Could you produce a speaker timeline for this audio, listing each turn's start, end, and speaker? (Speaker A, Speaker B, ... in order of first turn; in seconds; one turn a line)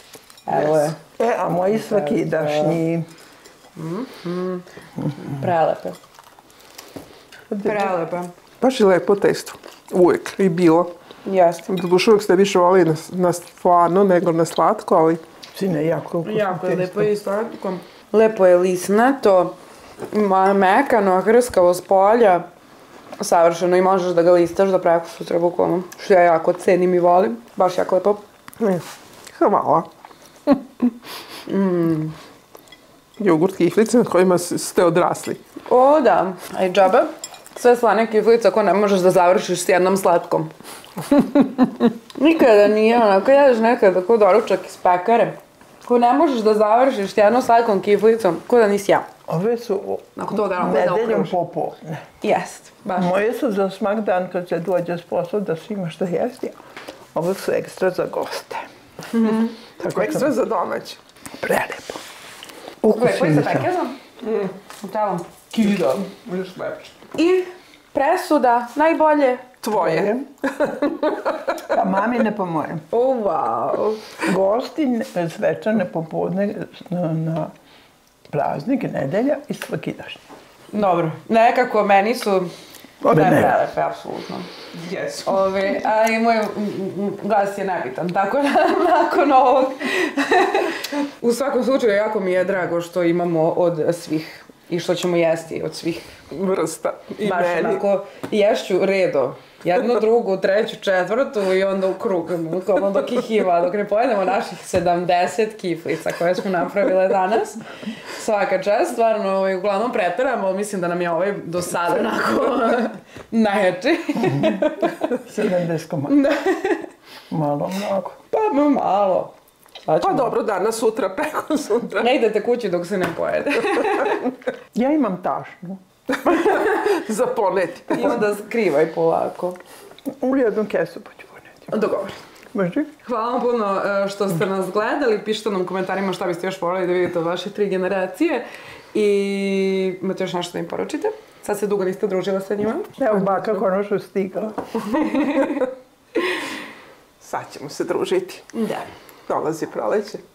Speaker A: 0.5-1.0
Speaker B: 1.2-3.1
Speaker A: 1.7-2.8
Speaker A: 3.8-4.7
Speaker B: 5.0-5.4
Speaker A: 5.2-6.0
Speaker A: 7.6-8.3
Speaker C: 8.6-10.9
Speaker A: 11.2-11.7
Speaker C: 11.7-15.2
Speaker B: 15.5-17.1
Speaker A: 16.2-19.6
Speaker A: 20.1-22.5
Speaker A: 23.2-28.2
Speaker C: 28.6-29.9
Speaker A: 31.5-32.2
Speaker C: 33.2-35.4
Speaker A: 35.7-40.5
Speaker A: 41.4-49.1
Speaker B: 49.3-52.0
Speaker A: 50.2-51.4
Speaker A: 52.2-53.1
Speaker B: 53.0-56.5
Speaker B: 57.1-58.7
Speaker A: 59.1-59.5
Speaker C: 59.3-61.0
Speaker B: 59.8-60.3
Speaker B: 61.4-62.0
Speaker B: 62.8-63.7
Speaker A: 62.9-64.0
Speaker C: 64.2-64.5
Speaker A: 64.8-65.7
Speaker C: 65.5-67.0
Speaker A: 67.2-69.5
Speaker C: 69.6-71.7
Speaker B: 69.7-70.3
Speaker B: 71.7-72.9
Speaker A: 72.9-74.3
Speaker B: 74.3-77.5
Speaker B: 78.3-80.2
Speaker A: 80.7-82.5
Speaker B: 83.0-83.6
Speaker A: 83.1-84.5
Speaker C: 84.7-85.6
Speaker A: 85.2-96.1
Speaker C: 96.3-97.8
Speaker A: 97.2-115.2
Speaker B: 114.2-116.2
Speaker A: 116.1-116.9
Speaker B: 117.3-118.2
Speaker A: 118.3-119.3
Speaker A: 119.9-120.3
Speaker C: 120.0-122.1
Speaker A: 122.0-124.2
Speaker B: 124.7-125.8
Speaker C: 126.1-128.2
Speaker A: 126.3-126.8
Speaker A: 127.9-129.6
Speaker B: 130.1-131.7
Speaker A: 131.7-132.2
Speaker B: 132.5-132.9
Speaker A: 133.1-143.7
Speaker B: 143.0-145.2
Speaker A: 144.8-145.7
Speaker C: 147.2-148.5
Speaker A: 148.5-148.9
Speaker C: 149.3-150.2